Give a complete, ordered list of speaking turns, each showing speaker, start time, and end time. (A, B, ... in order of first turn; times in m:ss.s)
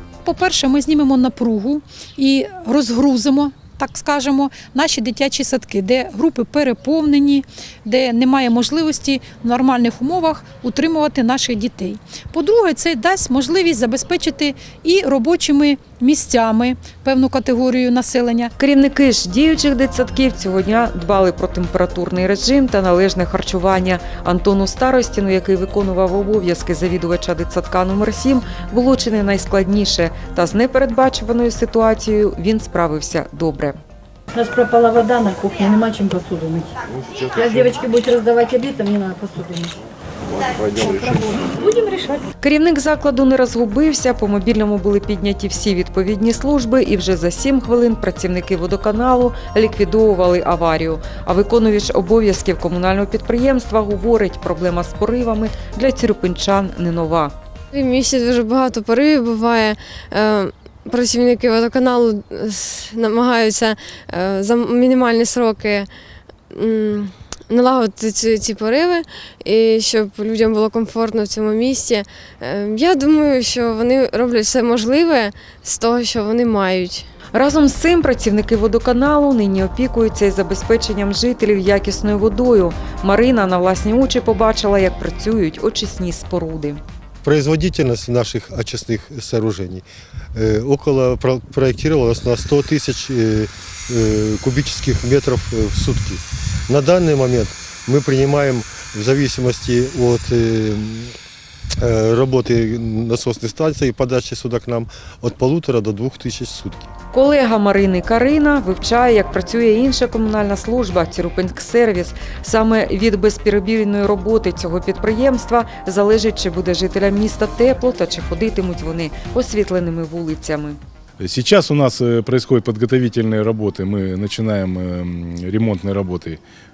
0:00.2-0:18.5 A
0:18.6-0:33.8 B
0:34.4-0:36.6 C
0:37.4-0:39.7 C
0:42.4-0:57.3 B
0:57.7-1:05.9 D
1:06.5-1:17.1 D
1:17.3-1:26.8 B
1:27.2-1:29.8 E
1:30.3-1:41.1 E
1:41.8-1:46.9 E
1:47.1-2:00.8 B
2:01.2-2:06.4 F